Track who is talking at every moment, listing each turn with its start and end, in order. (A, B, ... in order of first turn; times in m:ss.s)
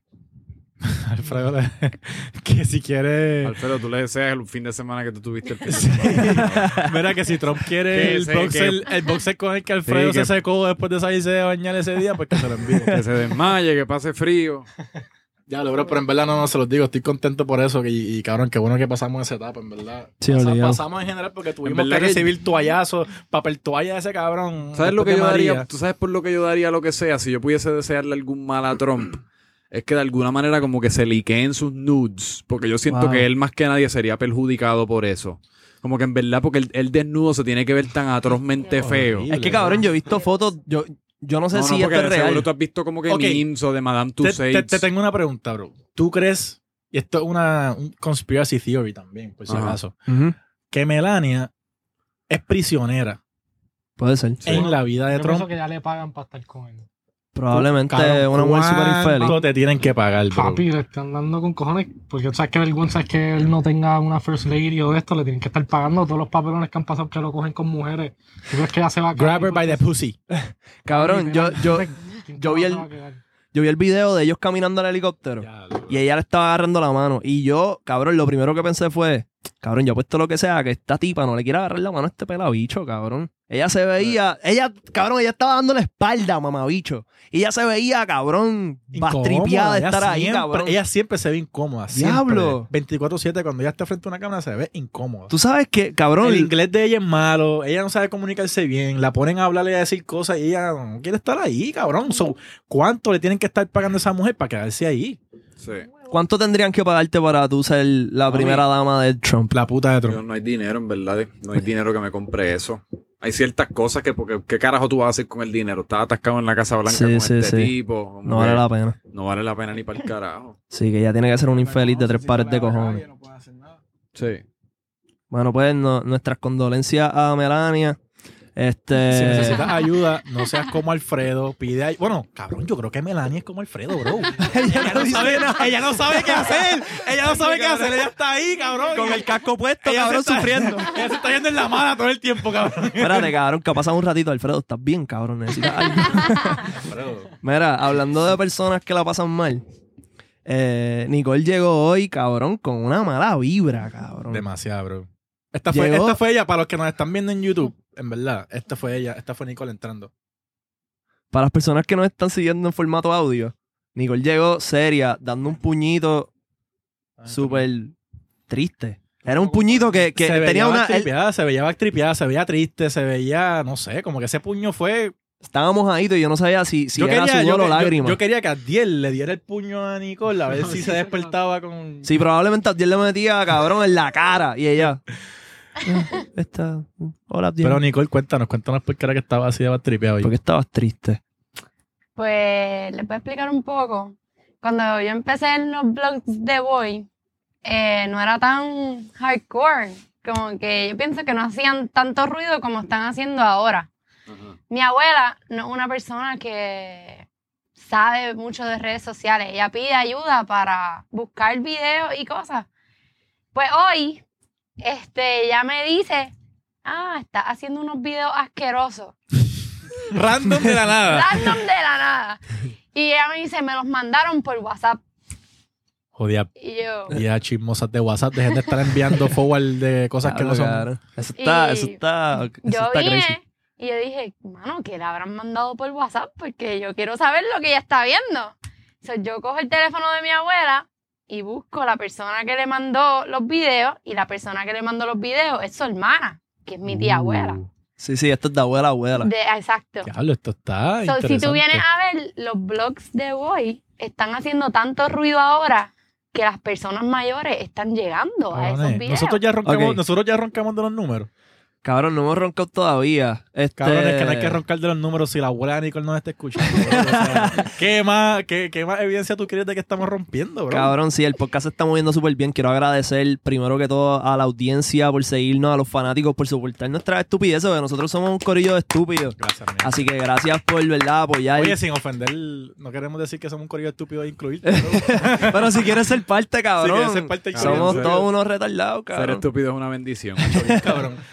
0:00.8-0:03.6 A
0:03.4-0:06.8 B
0:05.7-0:13.0 A
0:06.4-0:06.9 C
0:07.9-0:08.9 B
0:09.9-0:10.4 B
0:12.9-0:14.7 B
0:15.5-0:25.7 A
0:20.2-0:20.8 C
0:21.6-0:22.3 B
0:24.8-0:39.6 B
0:32.9-0:33.3 C
0:38.7-0:39.9 A
0:39.3-0:42.5 C
0:41.5-0:44.8 B
0:43.1-0:43.4 A
0:44.2-0:50.0 A
0:49.5-0:49.8 B
0:50.1-0:50.4 C
0:50.7-0:51.5 A
0:52.3-0:53.2 A
0:54.0-0:54.4 C
0:54.4-0:55.5 A
0:54.5-0:56.8 D
0:57.4-0:59.4 C
0:57.5-1:00.6 A
0:59.2-0:59.5 D
1:00.3-1:09.9 D
1:09.1-1:10.2 A
1:10.3-1:12.9 C
1:10.9-1:13.2 D
1:13.5-1:30.8 C
1:15.4-1:16.0 A
1:28.9-1:35.3 A
1:31.9-1:32.7 C
1:35.3-1:36.5 C
1:36.2-1:45.2 A
1:45.6-1:45.9 B
1:46.1-1:49.5 C
1:48.3-1:48.6 B
1:49.5-1:50.2 A
1:50.1-2:00.6 B
1:56.9-1:59.0 C
2:00.7-2:03.0 C
2:01.5-2:03.8 E
2:04.2-2:04.4 B
2:05.3-2:08.0 C
2:08.6-2:09.6 C
2:09.0-2:19.3 A
2:14.4-2:18.1 C
2:18.9-2:21.0 C
2:19.8-2:23.3 A
2:23.0-2:26.8 C
2:26.7-2:27.3 A
2:27.4-2:29.6 C
2:30.4-2:34.4 C
2:34.3-2:40.1 A
2:35.7-2:36.2 C
2:41.3-2:46.3 C
2:47.2-2:47.7 A
2:47.3-2:48.0 C
2:48.5-2:51.1 C
2:49.4-2:55.1 A
2:55.5-2:58.2 C
2:57.0-3:02.1 A
3:00.5-3:01.4 D
3:02.0-3:05.0 C
3:05.8-3:07.8 C
3:07.6-3:10.3 A
3:10.2-3:11.2 C
3:12.2-3:17.1 F
3:17.6-3:23.9 F
3:24.7-3:27.2 F
3:27.8-3:32.7 F
3:33.5-3:34.2 F
3:34.8-3:36.3 F
3:36.8-3:39.2 F
3:40.1-3:41.6 A
3:41.1-3:42.4 F
3:42.9-3:45.0 F
3:46.2-3:46.5 A
3:46.6-3:47.2 F
3:47.1-3:50.9 A
3:50.2-3:53.4 C
3:51.4-3:52.0 F
3:52.6-4:07.6 F
4:06.8-4:07.7 A
4:08.0-4:09.3 C
4:09.2-4:10.1 F
4:10.0-4:11.8 A
4:11.0-4:19.4 F
4:18.5-4:21.3 A
4:19.6-4:20.0 C
4:21.8-4:24.6 C
4:23.8-4:30.9 A
4:26.6-4:27.7 C
4:30.7-4:41.8 C
4:39.4-4:40.1 A
4:41.6-4:46.0 A
4:44.7-4:49.5 C
4:46.8-4:48.3 A
4:47.5-4:48.2 B
4:49.1-4:50.8 B
4:50.5-4:50.8 C
4:50.6-4:51.2 A